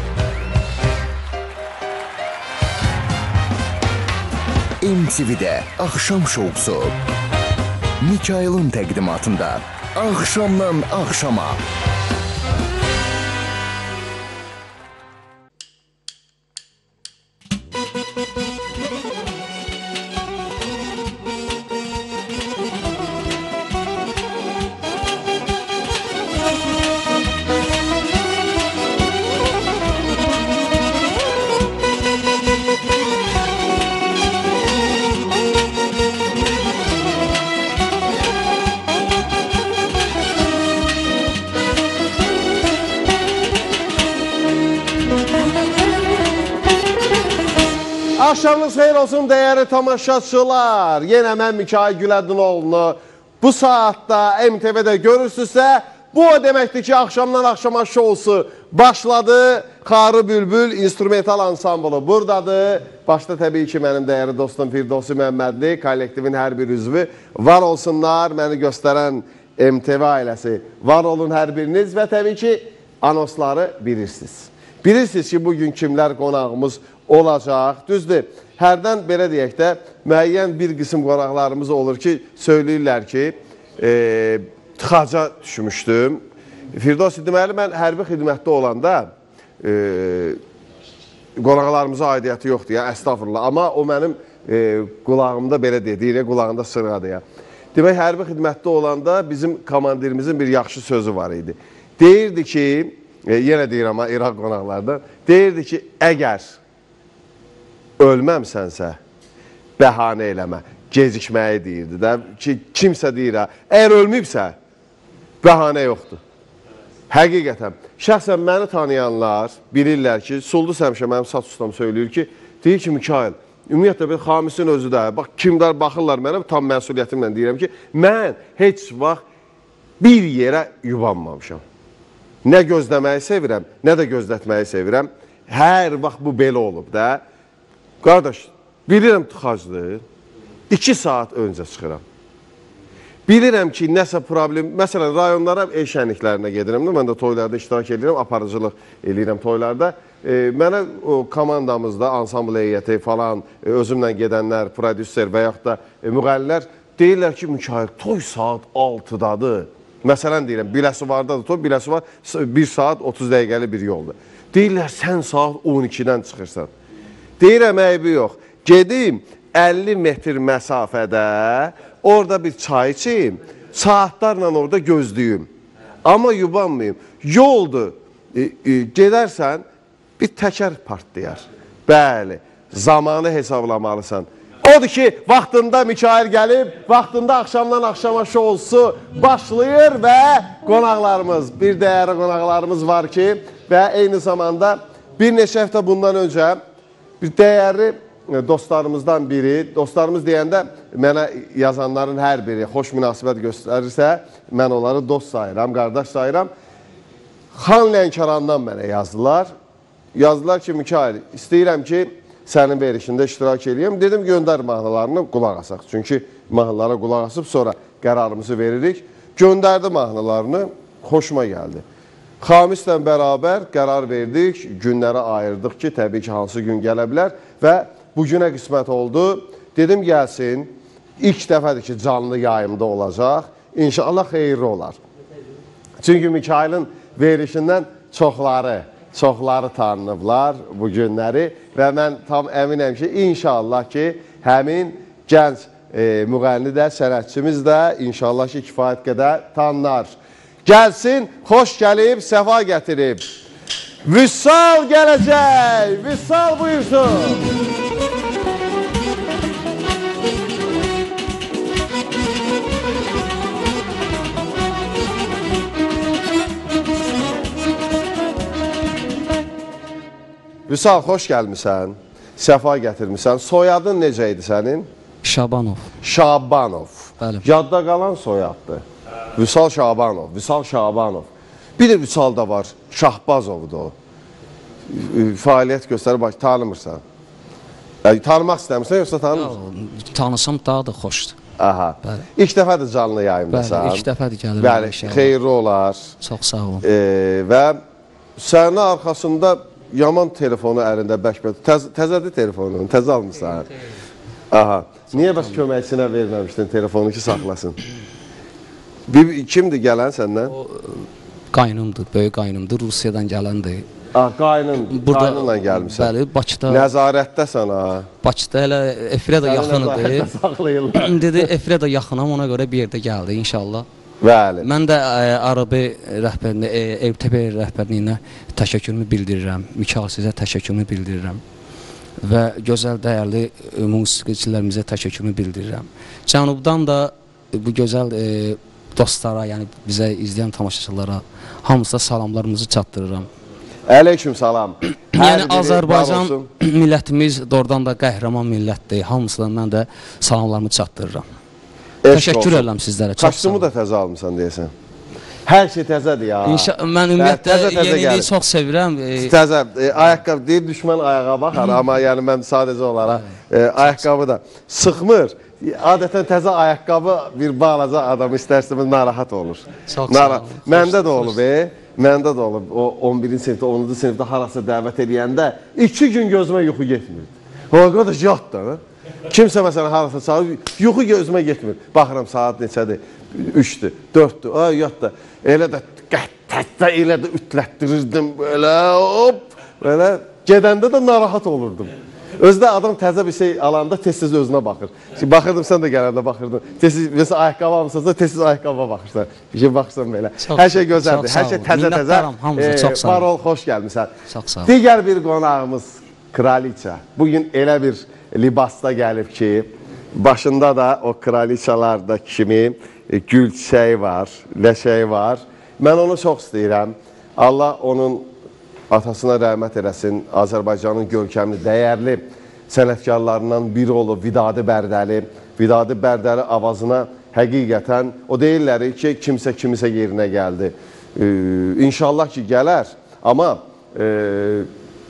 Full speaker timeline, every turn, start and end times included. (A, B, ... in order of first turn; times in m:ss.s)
0:04.8-0:07.0 A
0:08.0-0:11.6 A
0:48.2-1:26.2 B
1:26.7-1:30.4 B
1:31.4-1:37.2 B
1:37.7-1:46.5 B
1:48.0-1:49.0 B
1:49.8-1:54.6 B
1:55.4-1:56.2 B
1:57.1-2:09.2 B
2:10.0-2:11.6 B
2:12.4-2:17.2 B
2:18.0-2:20.0 B
2:20.7-2:22.0 B
2:23.3-2:46.7 B
2:47.4-2:55.5 B
2:56.0-2:59.6 B
3:00.2-3:16.6 B
3:17.2-3:26.5 B
3:27.5-3:29.5 B
3:30.1-3:41.8 B
3:42.4-3:55.0 B
3:56.0-4:10.1 B
4:10.6-4:13.2 B
4:14.0-4:17.4 B
4:30.7-4:34.9 B
4:35.2-4:35.8 C
4:36.0-4:38.8 B
4:37.2-4:37.5 C
4:39.4-4:43.9 B
4:44.9-4:47.0 B
4:48.0-4:49.5 B
4:49.3-4:51.4 C
4:51.6-4:54.0 B
4:53.5-4:55.3 C
4:54.6-4:56.0 B
4:56.2-4:56.8 C
4:56.8-4:57.8 B
4:58.4-5:03.7 B
5:04.5-5:07.8 B
5:05.1-5:05.6 C
5:09.1-5:10.5 B
5:10.5-5:13.8 C
5:14.1-5:16.1 B
5:14.9-5:16.9 C
5:16.7-5:18.1 B
5:18.2-5:20.3 C
5:19.4-5:21.5 B
5:20.9-5:23.8 C
5:24.2-5:24.7 B
5:24.6-5:31.4 C
5:32.2-5:43.3 C
5:43.9-5:46.5 B
5:45.1-5:51.2 C
5:52.0-5:52.6 B
5:52.1-5:53.7 C
5:53.2-5:54.7 B
5:55.4-5:58.3 B
5:56.4-5:59.3 C
5:59.2-6:44.1 B
6:09.9-6:11.4 C
6:40.4-6:43.3 C
6:44.3-6:44.7 C
6:44.6-6:58.3 B
6:58.9-7:14.7 B